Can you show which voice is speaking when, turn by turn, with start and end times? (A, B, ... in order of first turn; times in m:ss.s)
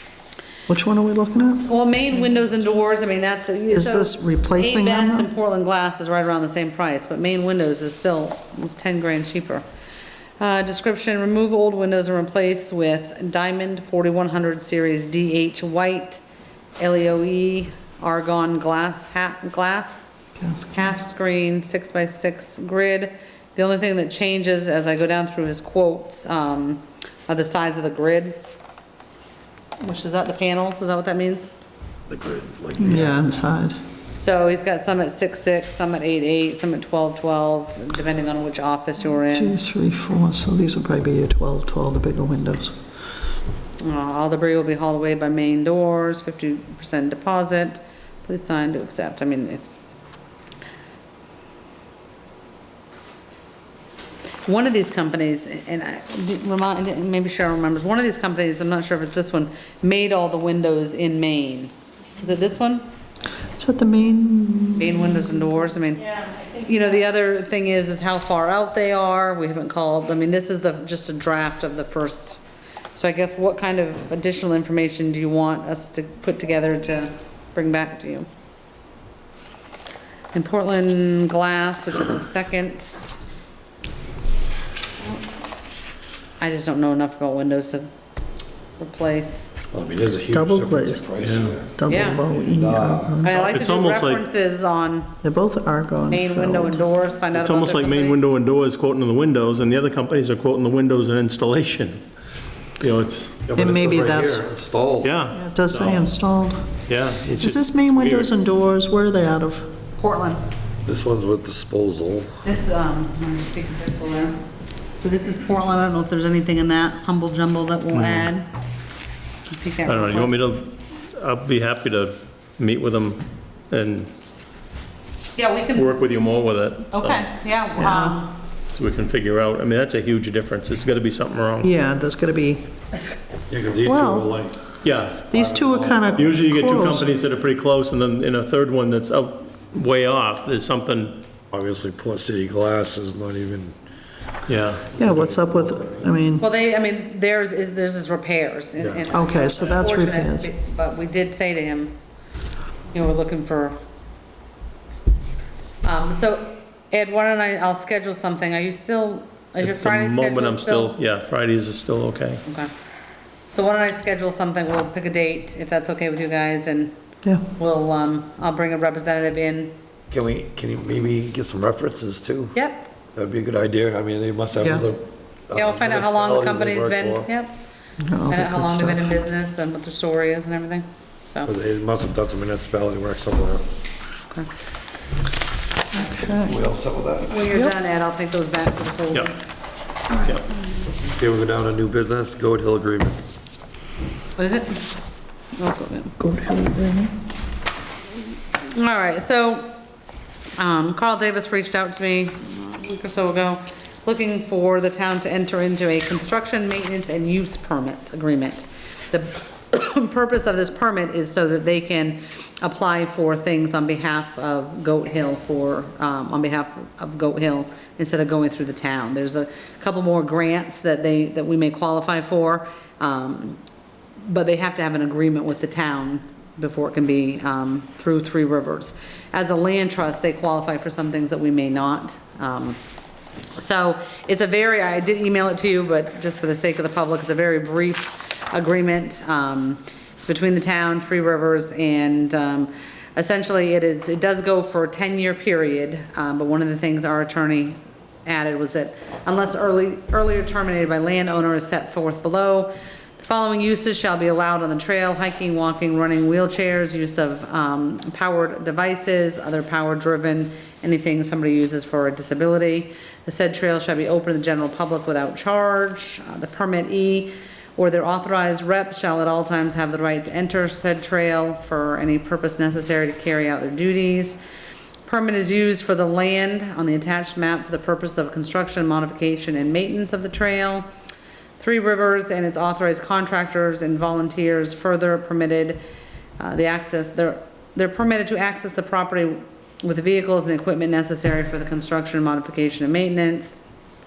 0:00.7-0:01.7 A
0:01.7-0:09.6 B
0:03.7-0:05.3 A
0:10.4-0:16.2 B
0:16.8-0:20.1 B
0:20.4-0:20.8 A
0:20.7-0:28.4 B
0:29.8-0:31.5 B
0:32.1-0:33.3 C
0:32.8-0:33.7 A
0:34.2-0:39.6 B
0:39.3-0:42.8 A
0:43.8-0:49.8 B
0:54.4-1:02.8 B
1:03.6-1:05.2 A
1:04.8-1:12.4 B
1:12.9-1:18.3 B
1:20.3-1:23.2 B
1:26.4-1:27.9 B
1:28.8-1:29.5 B
1:29.7-1:31.7 C
1:30.3-1:31.1 A
1:31.2-1:31.6 D
1:31.6-1:33.4 A
1:31.9-1:32.3 B
1:32.5-1:33.2 C
1:33.2-1:35.2 B
1:33.3-1:34.2 D
1:35.2-1:36.8 A
1:36.1-1:38.2 B
1:37.3-1:42.0 D
1:42.8-1:43.4 D
1:43.5-1:45.2 C
1:43.5-1:44.4 A
1:45.0-1:46.0 D
1:45.3-1:46.7 A
1:46.9-1:48.3 D
1:47.4-1:49.7 A
1:50.0-1:50.4 B
1:50.9-1:52.4 C
1:52.4-1:54.4 B
1:55.0-1:58.5 B
1:57.9-1:58.3 D
1:59.5-2:00.4 B
1:59.9-2:04.1 D
2:05.4-2:05.9 B
2:05.7-2:07.3 D
2:06.9-2:08.3 B
2:07.8-2:08.2 A
2:08.7-2:11.7 D
2:11.6-2:12.7 A
2:13.5-2:14.6 C
2:13.8-2:14.3 A
2:14.8-2:21.2 D
2:15.3-2:17.1 A
2:15.3-2:16.2 C
2:21.5-2:23.7 C
2:24.5-2:24.9 D
2:24.9-2:26.1 C
2:25.0-2:26.4 A
2:26.4-2:32.0 B
2:28.8-2:29.1 C
2:29.1-2:30.5 A
2:32.9-2:33.8 B
2:35.8-2:40.9 B
2:39.6-2:42.4 D
2:42.4-2:42.7 B
2:43.5-2:46.9 B
2:47.5-2:49.7 B
2:50.1-2:52.6 C
2:52.5-2:52.9 B
2:53.2-2:57.3 C
2:55.5-2:57.5 B
2:58.0-2:59.2 A
2:58.3-3:01.5 B
3:01.4-3:03.6 C
3:05.9-3:06.6 A
3:06.3-3:07.4 C
3:07.3-3:09.4 B
3:11.2-3:13.2 C
3:14.4-3:14.9 B
3:15.6-3:16.2 B
3:16.2-3:17.1 A
3:18.6-3:19.7 B
3:20.6-3:43.6 B
3:44.2-3:52.8 B
3:53.6-4:34.4 B
4:35.0-4:40.9 B
4:41.6-4:45.8 B
4:46.4-4:53.6 B